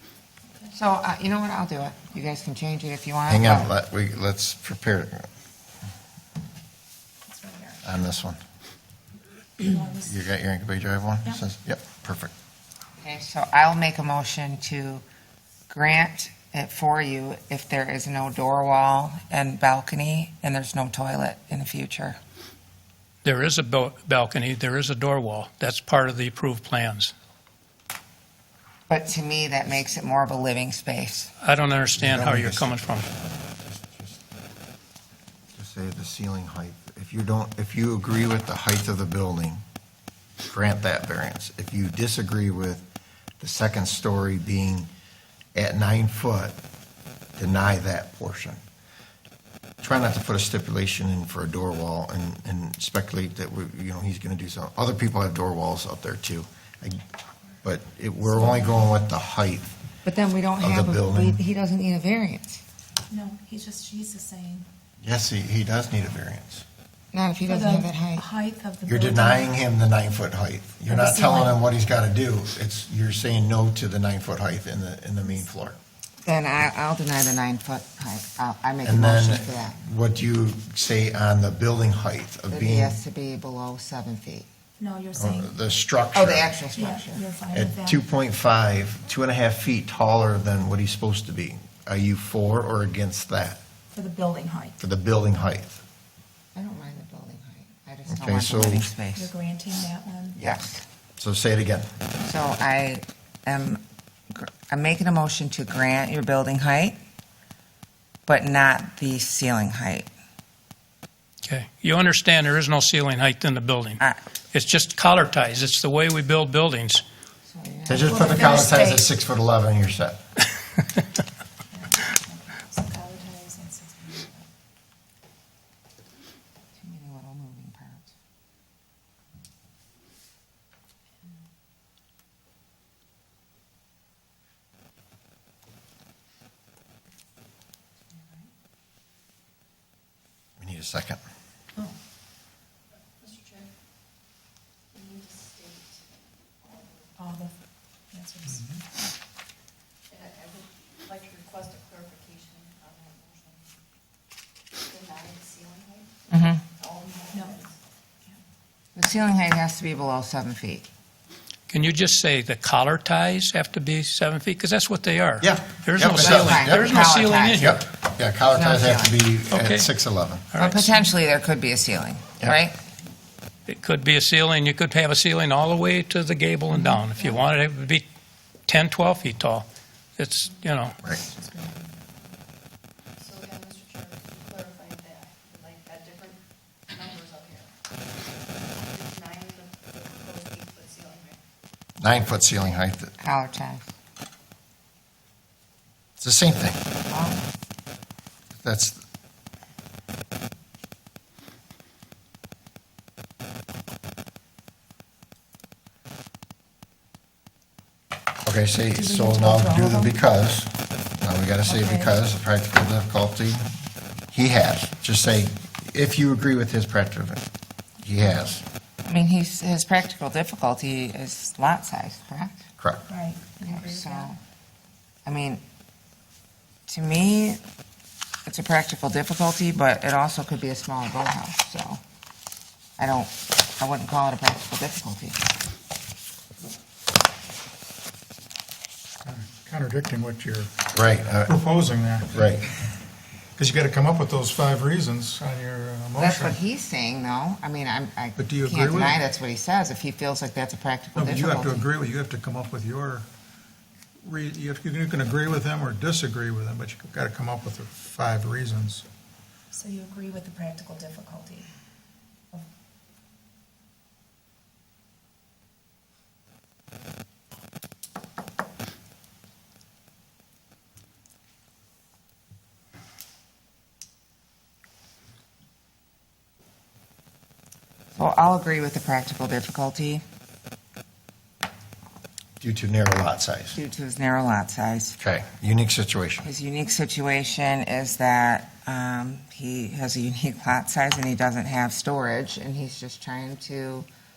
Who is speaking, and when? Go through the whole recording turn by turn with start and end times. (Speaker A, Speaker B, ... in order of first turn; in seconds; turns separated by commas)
Speaker A: 0.7-3.7, Speaker B: 3.3-5.3, Speaker C: 7.2-7.8, Speaker B: 7.8-8.4, Speaker C: 9.6-10.2, Speaker B: 10.0-12.3, Speaker A: 13.0-15.0, Speaker A: 15.7-22.2, Speaker D: 23.2-27.1, Speaker A: 28.9-31.3, Speaker D: 31.4-33.0, Speaker B: 31.9-34.2, Speaker B: 35.5-39.6, Speaker B: 40.5-42.8, Speaker B: 43.4-44.9, Speaker B: 45.5-46.5, Speaker B: 47.4-48.6, Speaker B: 49.8-57.0, Speaker B: 57.6-59.7, Speaker C: 58.4-58.7, Speaker A: 60.0-62.6, Speaker B: 60.6-61.4, Speaker C: 63.1-64.7, Speaker B: 65.0-66.6, Speaker A: 67.1-68.2, Speaker C: 67.5-69.5, Speaker B: 68.9-75.8, Speaker C: 70.9-71.5, Speaker A: 76.2-79.8, Speaker B: 78.8-83.0, Speaker A: 82.5-84.5, Speaker C: 84.8-85.5, Speaker B: 85.2-86.5, Speaker A: 86.1-87.2, Speaker C: 86.7-88.0, Speaker B: 87.5-93.6, Speaker C: 93.9-94.8, Speaker B: 94.8-95.8, Speaker A: 96.5-99.3, Speaker B: 98.1-98.9, Speaker C: 99.1-100.4, Speaker B: 100.4-100.6, Speaker A: 100.4-100.8, Speaker B: 101.2-101.9, Speaker A: 102.2-107.0, Speaker A: 108.2-110.1, Speaker D: 111.4-114.0, Speaker D: 114.5-117.0, Speaker A: 117.5-118.6, Speaker B: 117.9-120.2, Speaker C: 118.1-119.1, Speaker C: 121.7-124.5, Speaker A: 126.8-128.1, Speaker B: 140.6-141.2, Speaker C: 147.2-147.5, Speaker C: 148.1-148.7, Speaker E: 148.5-148.8, Speaker F: 151.1-152.2, Speaker F: 155.0-155.8, Speaker A: 156.3-156.6, Speaker C: 157.3-157.6, Speaker A: 158.9-160.8, Speaker D: 161.7-167.8, Speaker B: 165.4-170.4, Speaker A: 166.2-167.8, Speaker A: 168.5-169.2, Speaker D: 169.5-169.9, Speaker D: 170.5-170.9, Speaker A: 170.6-172.8, Speaker D: 173.7-178.0, Speaker C: 176.7-177.4, Speaker D: 178.7-179.7, Speaker D: 180.2-181.0, Speaker C: 181.3-182.0, Speaker F: 183.3-186.3, Speaker F: 186.9-187.6, Speaker F: 189.2-191.3, Speaker B: 192.0-193.1, Speaker A: 193.2-193.9, Speaker B: 196.2-196.8, Speaker A: 197.1-197.4, Speaker B: 198.6-199.0, Speaker B: 208.4-213.7, Speaker C: 209.0-210.1, Speaker C: 211.7-212.1, Speaker B: 214.3-217.4, Speaker B: 218.0-218.6, Speaker A: 219.0-222.7, Speaker C: 223.1-224.3, Speaker A: 223.6-224.4, Speaker A: 225.2-225.6, Speaker A: 226.9-227.6, Speaker A: 228.4-232.0, Speaker A: 233.0-235.4, Speaker E: 239.2-240.7, Speaker B: 240.9-241.6, Speaker E: 241.5-242.4, Speaker B: 242.3-242.6, Speaker E: 243.6-246.6, Speaker A: 246.2-251.9, Speaker E: 248.4-249.2, Speaker E: 251.1-253.3, Speaker E: 254.2-259.1, Speaker C: 259.7-261.7, Speaker A: 278.1-280.2, Speaker B: 282.6-283.8, Speaker A: 283.7-285.2, Speaker B: 285.2-286.4, Speaker A: 286.4-294.1